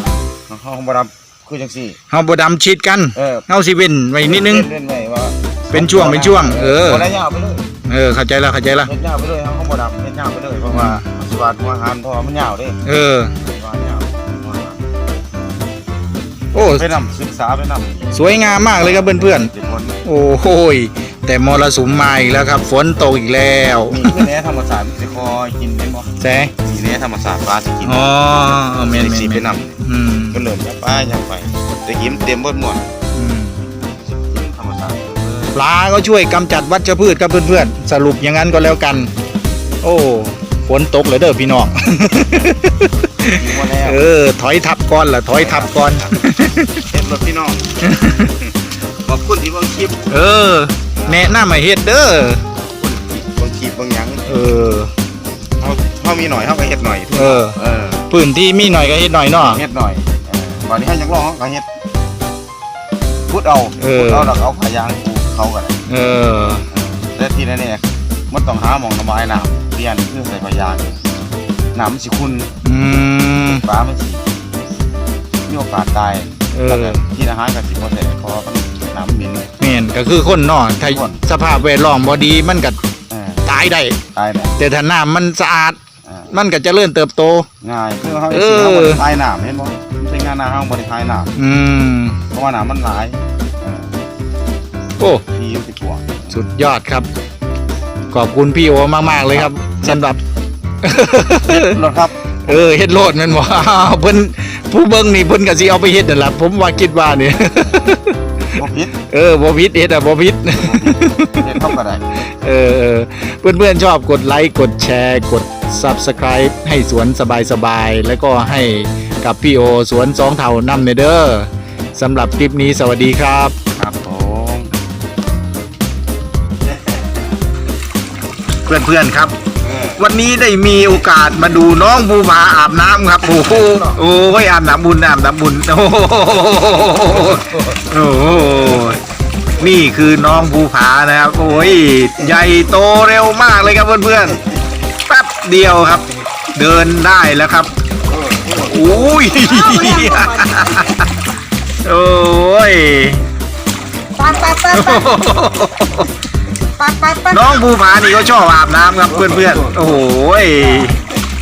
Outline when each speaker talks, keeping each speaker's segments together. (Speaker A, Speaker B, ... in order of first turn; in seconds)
Speaker A: 0.5-2.0, 3.1-3.5, 4.2-7.7, 8.8-12.8, 13.4-14.9, 16.6-20.0, 23.9-28.3, 28.8-29.8, 30.3-32.9, 33.8-35.6, 43.3-44.0, 45.3-46.1, 46.8-47.8, 48.5-50.1, 51.0-51.2, 52.6-54.5, 55.6-58.1, 59.4-61.7, 63.3-65.8, 66.7-71.0, 71.7-72.5, 73.6-74.3, 75.4-79.5, 80.8-81.2, 83.1-83.5, 84.1-84.6, 86.0-86.3, 87.6-91.4, 92.3-94.0, 95.2-96.4, 99.2-100.1, 101.4-102.6, 108.5-109.0, 110.5-112.2, 123.7-124.7, 129.6-130.0, 133.2-134.0, 137.1-137.8, 148.3-148.9, 159.3-159.8
Speaker B: 2.1-4.7, 5.7-7.1, 7.9-8.9, 10.7-11.0, 12.8-13.3, 16.5-16.8, 18.1-19.5, 20.0-24.3, 26.2-26.5, 27.8-30.4, 33.1-33.6, 35.5-39.1, 39.8-46.8, 47.8-48.3, 50.1-52.4, 54.3-54.9, 57.1-57.6, 58.1-59.6, 63.8-64.3, 65.9-66.7, 72.6-73.6, 76.5-77.0, 79.6-82.8, 83.4-84.0, 84.6-85.8, 86.3-87.5, 88.3-89.0, 91.3-92.2, 96.3-97.1, 98.1-100.2, 100.8-101.8, 102.5-108.2, 109.1-111.5, 112.2-123.5, 128.7-129.3, 130.0-139.0, 139.6-144.4, 145.0-147.7, 148.5-151.1, 151.8-153.2, 154.6-156.1, 157.2-161.0
Speaker C: 149.7-150.8, 154.2-154.9, 156.8-157.3